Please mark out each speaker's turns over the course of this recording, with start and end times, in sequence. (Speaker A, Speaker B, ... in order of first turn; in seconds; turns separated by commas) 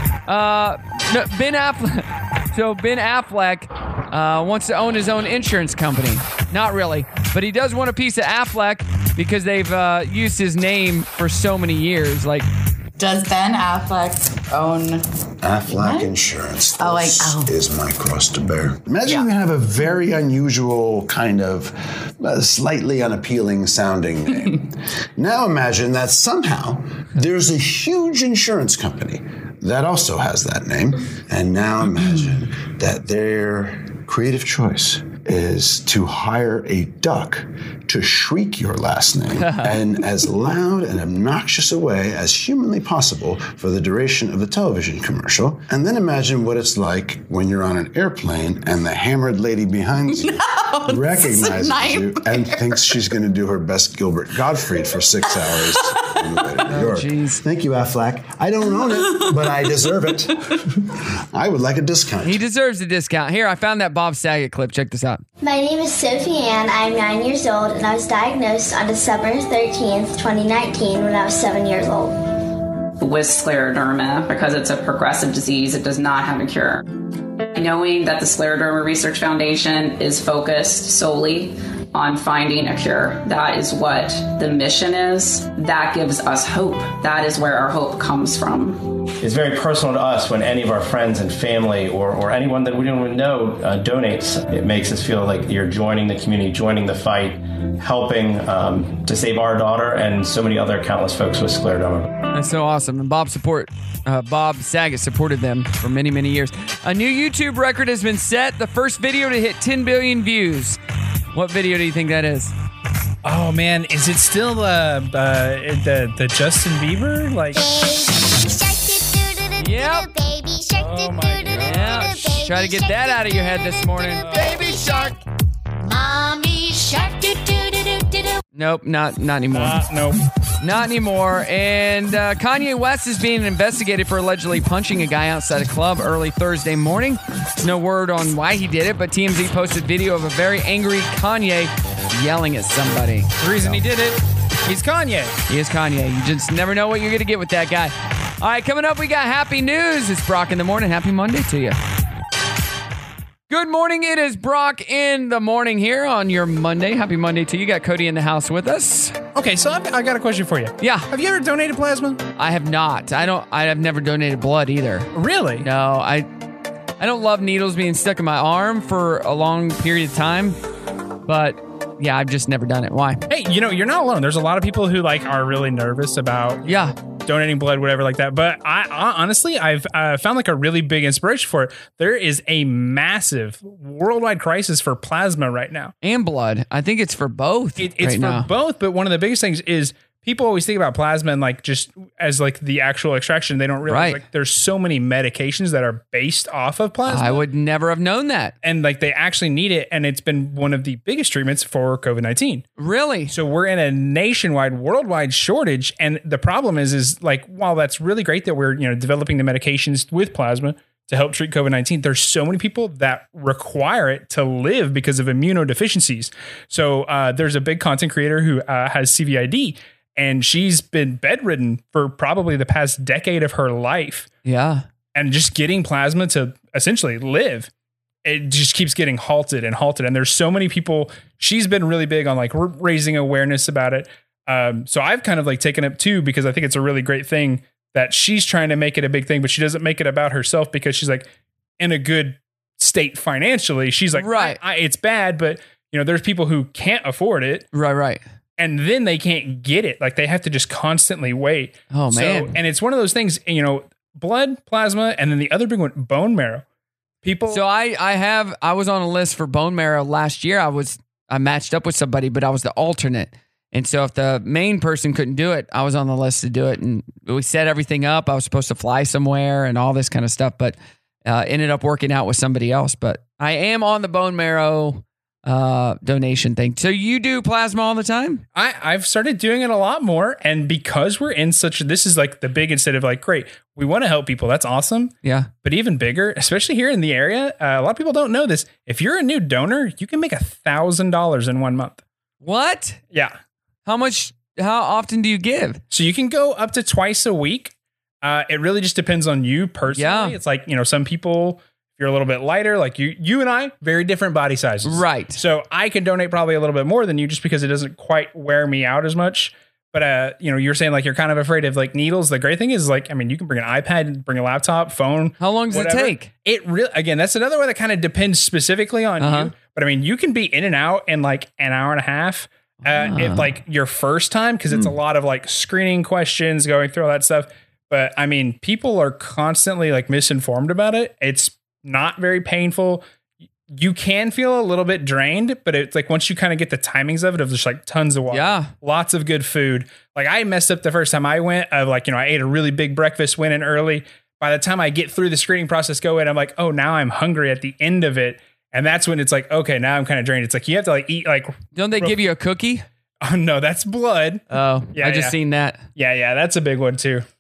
Speaker A: 0.3-12.5, Speaker B: 13.0-15.0, Speaker C: 15.4-60.4, Speaker B: 15.7-16.1, Speaker B: 16.8-17.5, Speaker A: 39.4-39.8, Speaker B: 51.4-51.7, Speaker A: 56.6-57.4, Speaker C: 61.3-62.4, Speaker A: 62.2-65.2, Speaker D: 65.4-72.2, Speaker E: 73.0-76.8, Speaker E: 77.5-88.9, Speaker F: 89.2-102.1, Speaker A: 102.3-110.8, Speaker A: 111.3-112.5, Speaker G: 113.2-117.6, Speaker H: 117.8-119.4, Speaker A: 119.6-120.1, Speaker H: 120.0-121.4, Speaker G: 120.7-122.1, Speaker A: 121.5-125.2, Speaker H: 122.4-122.7, Speaker G: 124.1-124.6, Speaker A: 128.6-129.8, Speaker G: 129.5-130.2, Speaker A: 130.6-143.8, Speaker G: 143.4-145.4, Speaker A: 145.5-151.8, Speaker A: 153.5-159.2, Speaker G: 159.3-162.2, Speaker A: 160.8-161.1, Speaker A: 162.4-165.1, Speaker G: 165.1-165.7, Speaker A: 165.6-166.3, Speaker A: 167.0-170.6, Speaker A: 171.3-173.2, Speaker G: 173.3-185.9, Speaker A: 176.6-176.9, Speaker A: 186.0-188.5, Speaker G: 187.8-197.4, Speaker A: 193.9-194.2, Speaker A: 197.1-198.6, Speaker G: 198.6-202.6, Speaker A: 202.8-203.3, Speaker G: 203.3-224.3, Speaker A: 224.4-224.9, Speaker G: 225.1-227.7, Speaker G: 228.2-247.7, Speaker A: 244.1-244.6, Speaker A: 247.7-248.2, Speaker G: 248.6-256.6, Speaker A: 251.9-252.6, Speaker G: 257.2-257.6, Speaker A: 257.5-278.4, Speaker G: 278.6-292.0, Speaker A: 285.2-285.5, Speaker A: 292.4-293.0, Speaker A: 293.9-295.8, Speaker G: 295.9-333.0, Speaker A: 299.9-300.4, Speaker A: 304.8-305.4, Speaker A: 315.4-316.3, Speaker A: 319.2-319.5, Speaker A: 322.8-323.6, Speaker G: 333.7-352.2, Speaker A: 338.3-338.7, Speaker A: 351.8-352.9, Speaker G: 353.2-355.4, Speaker A: 354.5-355.8, Speaker G: 356.0-357.2